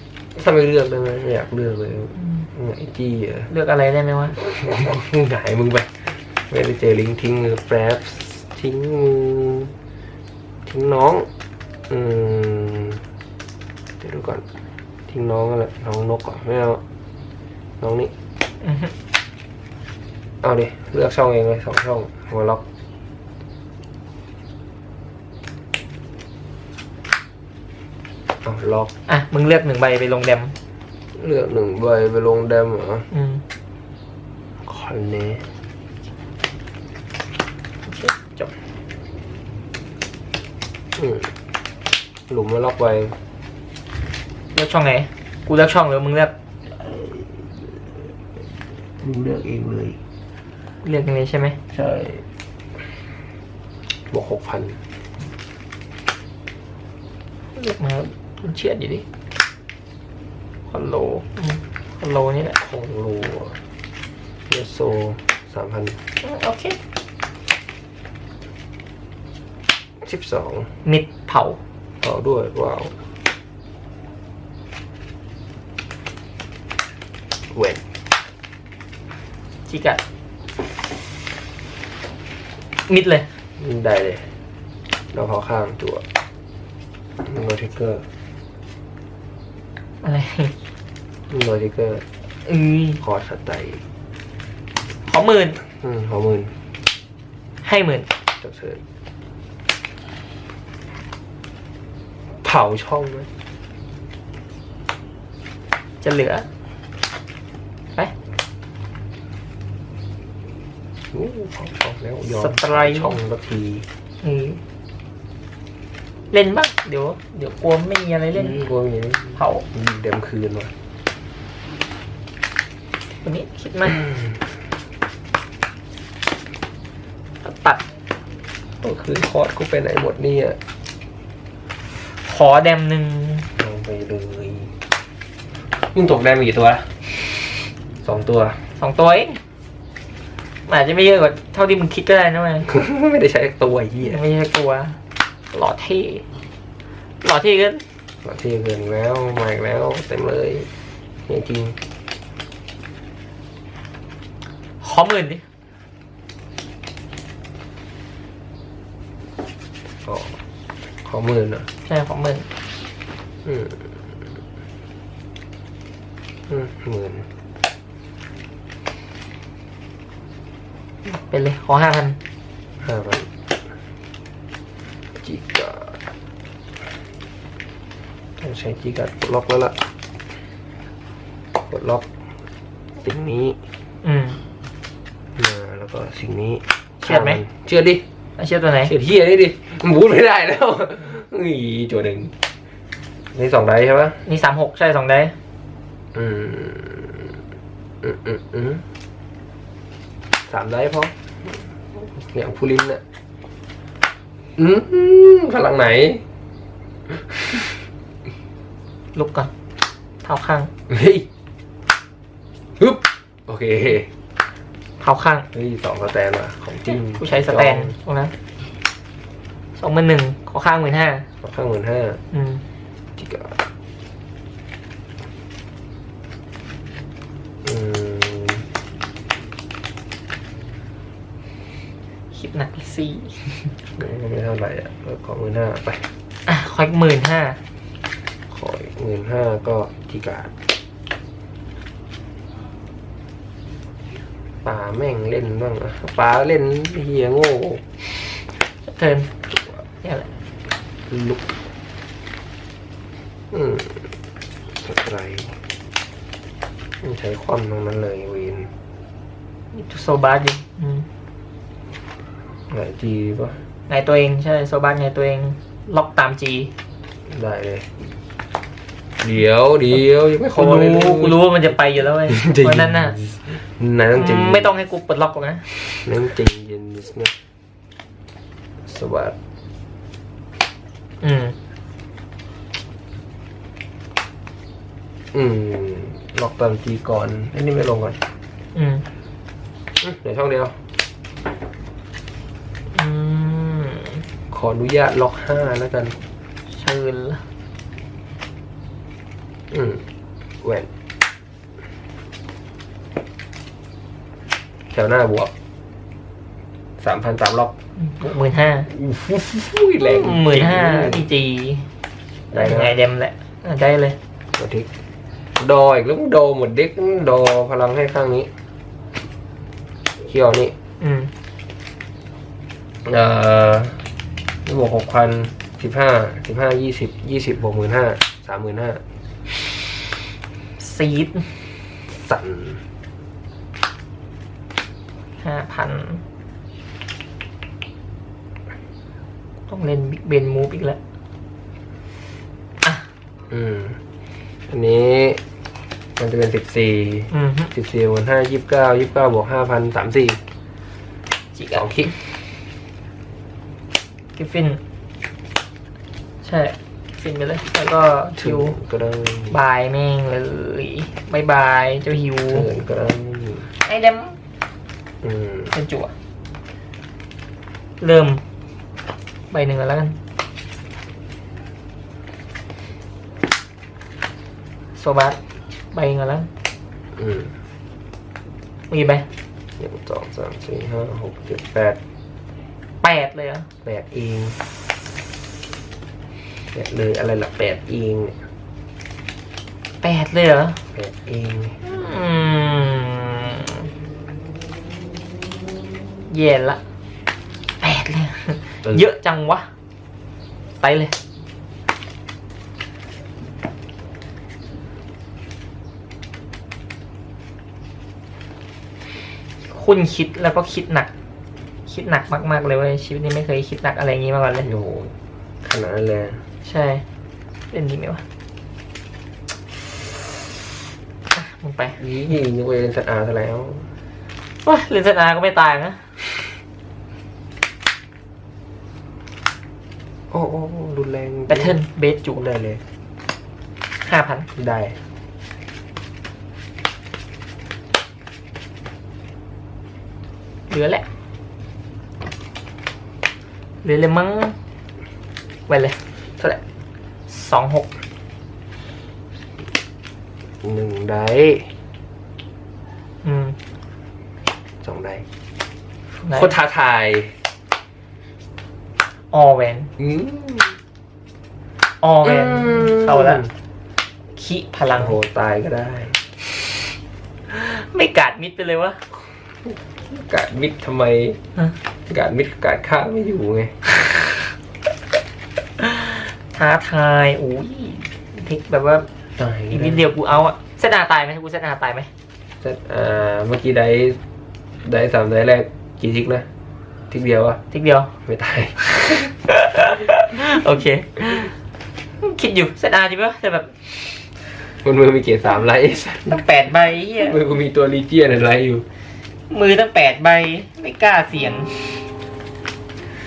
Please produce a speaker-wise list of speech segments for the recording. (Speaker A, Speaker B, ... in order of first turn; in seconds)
Speaker A: 0.3-3.5, 4.4-9.7, 10.7-11.3, 11.9-13.0, 14.0-14.4, 15.1-16.8, 17.8-18.1, 20.4-22.6, 28.4-28.9, 31.1-33.1, 34.6-35.5, 41.0-41.3, 42.3-43.2, 46.7-48.1, 48.9-50.0, 51.7-52.2, 54.1-54.8, 62.5-63.6, 64.5-66.0, 70.0-70.7, 72.0-72.9, 77.5-77.8, 83.6-84.3, 85.1-86.0, 87.2-88.1, 91.3-92.0, 93.0-93.8, 95.7-96.5, 98.4-98.8, 102.4-103.3, 111.1-113.9, 118.3-120.7, 128.8-130.6, 133.6-134.8, 135.8-136.9, 138.0-138.7, 142.7-144.2, 148.2-150.7, 151.3-151.8, 160.1-160.4, 161.0-161.7, 163.4-164.2, 166.5-167.3, 172.8-173.3, 175.2-176.0, 178.4-179.8, 181.6-182.1, 183.0-183.6, 185.4-188.0, 188.8-192.3, 193.3-194.2, 196.1-197.4, 198.0-198.8, 200.5-203.0, 204.6-206.2, 207.1-207.8, 210.9-211.3, 212.8-214.1, 215.5-217.9, 221.4-222.2, 223.2-223.6, 227.6-228.7, 234.0-236.1, 238.5-240.5, 244.7-247.8, 249.5-249.8, 251.1-251.5, 253.5-254.2, 254.8-255.6, 257.0-258.7, 262.7-263.6, 267.2-267.9, 269.2-271.4, 272.3-274.7, 276.0-277.4, 278.9-279.4, 285.3-288.2, 290.0-290.8, 294.5-296.2, 299.7-300.1, 300.6-300.9, 304.9-305.5, 307.0-307.7, 308.9-311.3, 312.5-313.0, 314.6-314.9, 315.6-318.5, 320.2-320.8, 323.1-324.0, 324.7-329.0, 332.1-332.8, 343.5-344.0, 344.7-345.4, 346.2-350.4, 351.7-352.2, 358.4-359.6, 362.5-363.7, 365.2-365.8, 377.1-377.6, 379.8-382.0, 383.8-384.6, 386.7-388.4, 390.9-391.8, 414.6-416.4, 422.0-423.9, 430.3-431.8, 432.3-432.8, 434.6-435.0, 450.6-451.7, 454.8-455.3, 456.3-457.4, 460.0-460.8, 462.3-463.5, 464.9-466.2, 469.6-471.4, 472.1-473.9, 479.4-480.1, 482.6-484.2, 484.8-486.5, 487.1-487.6, 488.2-489.3, 494.7-496.5, 497.1-498.9
Speaker B: 3.5-4.4, 18.6-18.9, 29.1-30.6, 33.1-33.4, 37.9-38.5, 44.5-46.3, 50.8-51.6, 57.5-59.0, 60.7-62.6, 66.2-66.8, 70.8-71.6, 79.7-80.0, 82.9-83.3, 90.0-90.5, 92.5-93.0, 95.1-95.6, 97.6-98.1, 106.0-106.5, 112.3-113.2, 114.2-114.6, 116.3-118.7, 119.4-119.7, 123.2-124.0, 127.4-127.8, 132.1-133.5, 138.8-139.4, 140.7-142.7, 144.0-145.0, 145.5-146.2, 147.2-147.8, 154.8-155.4, 161.8-162.5, 171.1-172.2, 184.0-184.4, 187.0-187.4, 188.4-188.9, 194.3-195.3, 209.1-209.5, 210.2-210.7, 215.0-215.5, 217.2-218.3, 219.8-221.3, 222.3-222.6, 232.3-233.7, 236.5-237.6, 248.8-249.3, 250.0-250.3, 259.7-261.1, 263.9-266.7, 270.5-273.3, 274.1-275.7, 281.2-281.6, 288.7-289.1, 292.9-294.3, 296.7-297.4, 308.0-308.9, 310.0-311.9, 312.5-314.2, 321.0-321.3, 330.8-331.5, 335.4-336.2, 339.7-341.0, 342.8-343.1, 347.3-347.7, 351.6-351.9, 354.4-354.8, 356.4-358.8, 359.5-362.7, 363.7-364.4, 365.7-366.1, 368.0-368.4, 369.5-370.2, 374.9-375.4, 375.9-376.5, 378.9-379.3, 383.0-383.7, 390.0-390.8, 391.8-393.9, 396.3-396.8, 397.8-399.7, 400.8-401.1, 409.6-411.1, 411.9-414.7, 416.6-417.0, 417.7-418.2, 421.3-422.0, 424.6-426.1, 431.5-432.4, 434.0-434.5, 440.7-441.1, 443.8-444.6, 445.7-446.0, 447.3-447.9, 453.2-453.6, 456.2-456.5, 459.3-459.9, 462.0-463.5, 464.4-465.2, 467.5-469.0, 475.8-479.1, 479.7-482.1, 487.7-488.1, 489.4-491.6, 492.2-493.9, 496.3-497.4, 499.5-502.1